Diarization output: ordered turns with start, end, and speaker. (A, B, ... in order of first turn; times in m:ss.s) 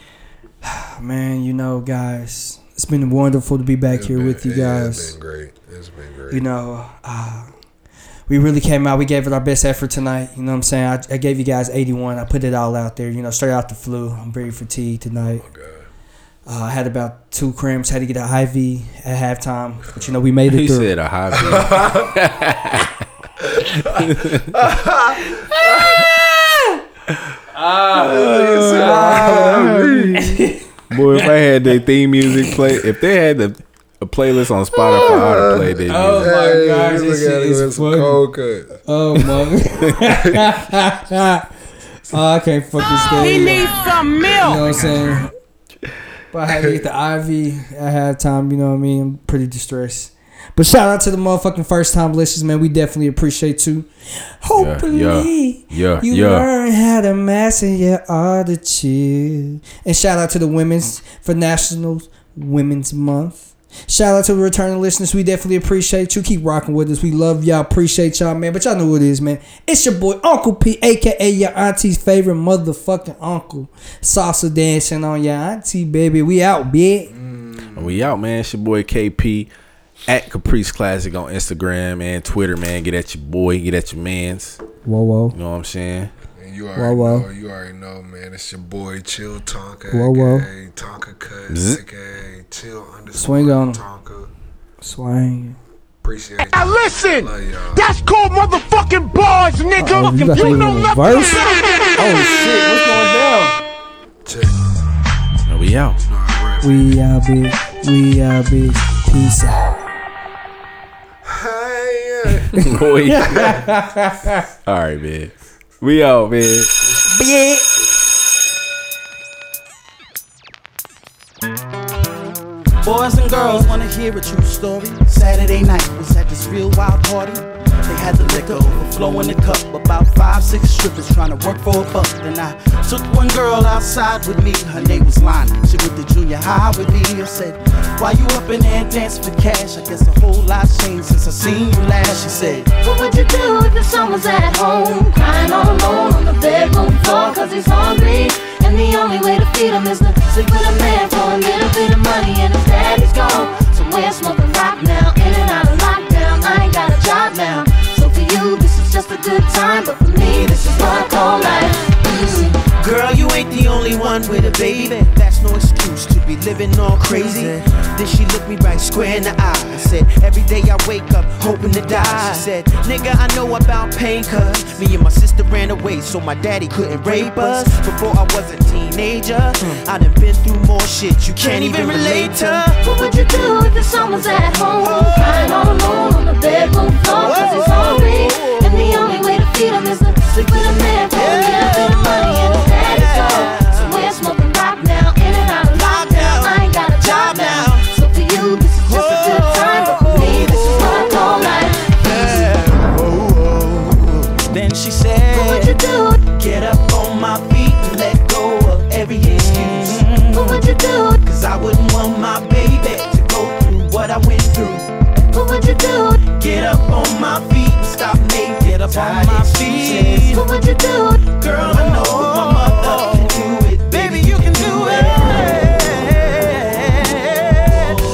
0:00.6-0:05.1 A
0:03.9-0:06.4 B
0:06.3-0:07.5 A
0:08.3-0:15.4 A
0:15.4-0:15.9 B
0:16.5-0:20.9 A
0:20.5-0:23.0 C
0:21.4-0:22.2 B
0:23.5-0:26.2 B
0:23.6-0:24.6 C
0:27.7-0:30.6 A
0:27.9-0:30.3 B
0:27.9-0:30.4 C
0:30.9-0:36.3 C
0:34.8-0:38.8 B
0:35.9-0:38.2 A
0:38.9-0:41.5 A
0:39.8-0:40.4 C
0:42.1-0:45.3 A
0:43.1-0:44.6 D
0:44.1-0:45.2 B
0:46.3-0:53.9 A
0:46.5-0:46.8 B
0:54.4-1:17.1 A
0:54.6-0:56.5 C
1:17.1-1:18.1 B
1:17.8-1:19.5 C
1:20.1-1:24.6 C
1:24.8-1:25.4 A
1:25.3-1:26.1 C
1:26.4-1:34.3 B
1:26.8-1:27.3 A
1:29.9-1:30.5 A
1:31.5-1:31.8 C
1:33.2-1:33.8 A
1:34.8-1:35.6 A
1:36.0-1:37.9 B
1:36.5-1:41.8 D
1:39.8-1:41.4 A
1:42.0-1:43.6 A
1:44.2-1:44.9 B
1:45.5-1:46.0 C
1:46.0-1:46.9 B
1:46.6-1:49.9 A
1:51.2-1:52.5 B
1:52.5-1:53.6 C
1:52.6-1:54.4 A
1:54.7-1:56.7 C
1:57.1-1:57.7 A
2:02.8-2:22.7 E
2:22.7-2:42.6 F
2:42.6-3:02.8 E
2:57.3-2:57.6 F
3:01.5-3:22.6 F
3:04.8-3:05.5 E
3:07.1-3:08.7 E
3:11.1-3:13.9 E
3:15.7-3:17.9 E
3:18.8-3:30.7 E
3:25.3-3:26.3 F
3:30.3-3:31.2 F
3:31.2-3:34.9 E
3:35.3-3:36.4 F
3:36.2-3:40.5 E
3:39.1-3:42.1 F
3:41.3-3:47.9 E
3:44.6-3:45.3 F